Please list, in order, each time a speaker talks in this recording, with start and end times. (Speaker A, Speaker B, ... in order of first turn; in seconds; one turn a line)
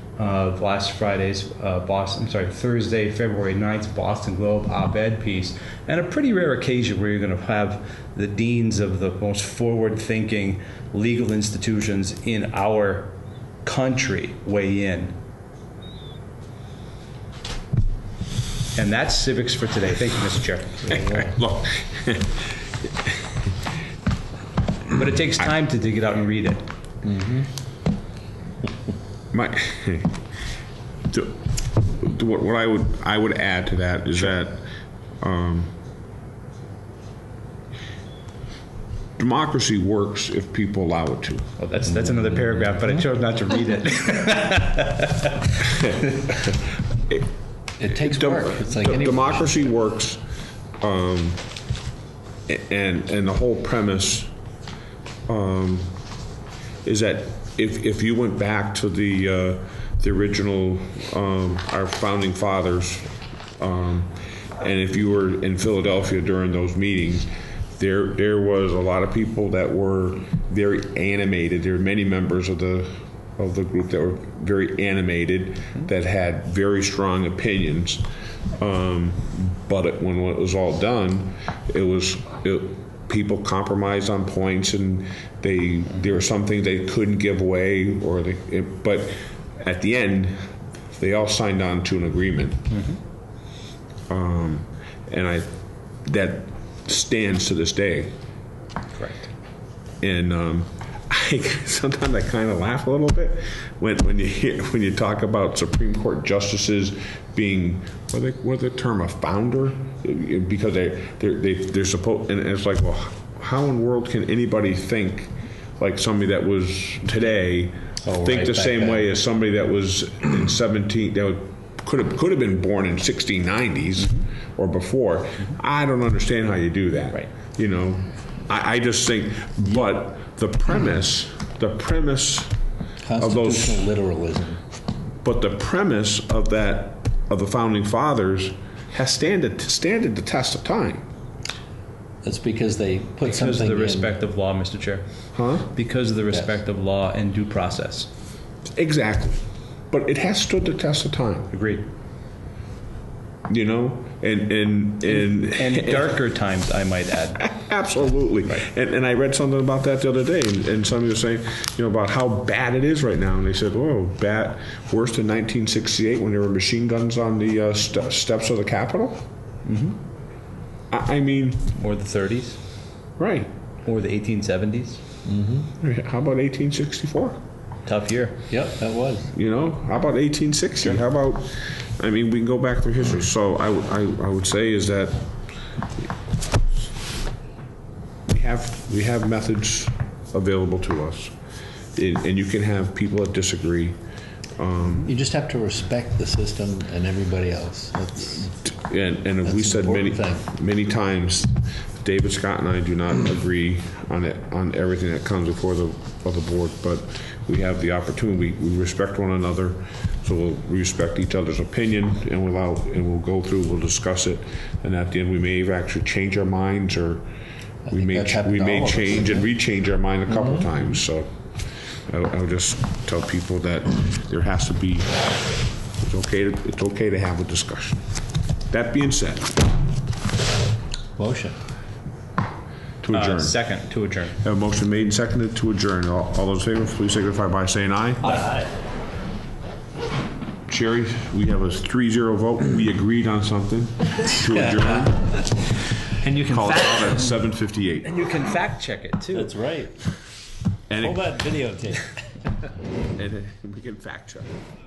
Speaker A: 0.2-15.2
Speaker A: 18.8-21.2
Speaker B: 21.1-22.9
Speaker A: 25.0-26.7
Speaker C: 27.0-27.5
Speaker B: 29.3-30.2
Speaker B: 31.1-35.7
Speaker B: 39.2-41.6
Speaker A: 41.6-44.9
Speaker C: 41.8-43.0
Speaker C: 47.8-49.7
Speaker B: 48.0-51.7
Speaker B: 52.5-54.3
Speaker B: 55.3-56.2
Speaker B: 56.8-92.6
Speaker A: 92.7-93.0
Speaker B: 94.1-98.2
Speaker A: 99.0-99.3
Speaker B: 100.0-132.7
Speaker C: 118.0-119.1
Speaker A: 124.0-124.3
Speaker C: 133.0-134.6
Speaker B: 133.2-133.9
Speaker B: 135.2-141.1
Speaker C: 142.2-144.2
Speaker A: 143.2-148.1
Speaker B: 145.3-145.7
Speaker C: 146.3-146.6
Speaker B: 148.6-151.5
Speaker A: 151.5-151.8
Speaker B: 153.5-156.2
Speaker A: 155.1-157.4
Speaker B: 157.4-169.3
Speaker A: 169.7-170.0
Speaker B: 170.9-171.7
Speaker A: 171.8-173.0
Speaker B: 173.2-173.5
Speaker A: 173.8-175.0
Speaker C: 175.2-175.7
Speaker B: 175.8-177.4
Speaker A: 177.8-178.5
Speaker C: 178.5-179.3
Speaker B: 179.3-185.4
Speaker B: 188.3-194.0
Speaker B: 194.5-195.1
Speaker C: 195.0-198.7
Speaker B: 198.4-217.2
Speaker C: 199.4-200.4
Speaker C: 217.9-219.6
Speaker B: 217.9-228.1
Speaker C: 220.3-221.0
Speaker B: 228.7-229.7
Speaker C: 231.2-231.6
Speaker B: 233.0-233.7
Speaker A: 233.2-234.3
Speaker B: 234.4-238.5
Speaker A: 238.2-238.7
Speaker B: 240.7-245.4
Speaker A: 244.2-245.6
Speaker B: 246.2-248.2
Speaker A: 246.3-247.4
Speaker A: 248.0-249.6
Speaker C: 249.3-250.0
Speaker B: 250.9-251.3
Speaker C: 251.1-251.7
Speaker A: 251.3-251.9
Speaker B: 253.2-254.5